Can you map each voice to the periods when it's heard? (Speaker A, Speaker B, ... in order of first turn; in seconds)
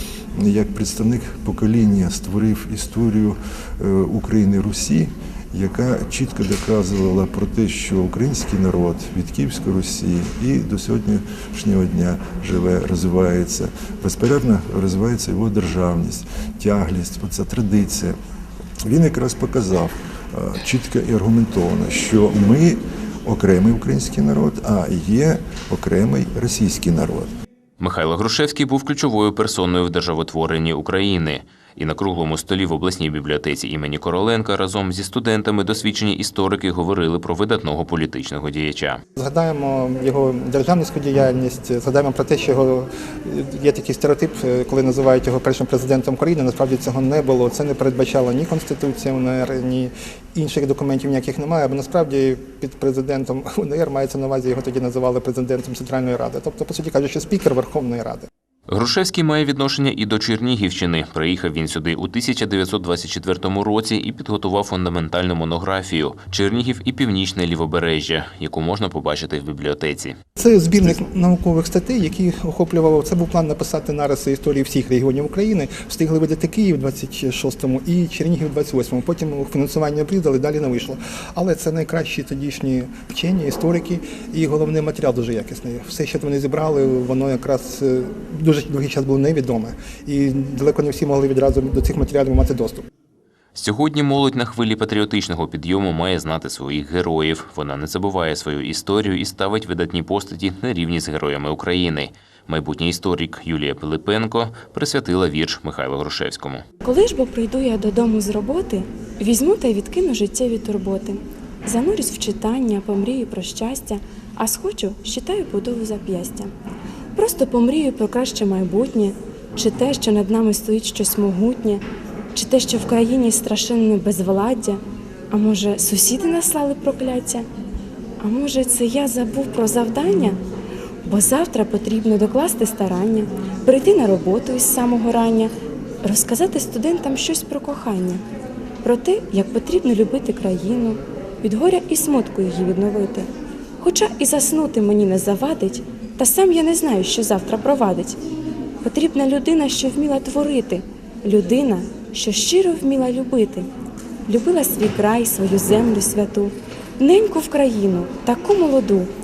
Speaker A: 0.3-18.2, 18.9-27.3
Speaker B: 27.8-39.0, 58.7-70.2, 93.5-106.6
Speaker C: 39.2-58.3, 70.4-92.9
Speaker D: 106.8-116.5, 117.2-121.8, 122.3-124.8, 125.3-127.5, 128.2-130.4, 131.0-135.5, 136.0-138.2, 138.8-143.3, 143.8-148.2, 148.8-153.7, 154.3-159.1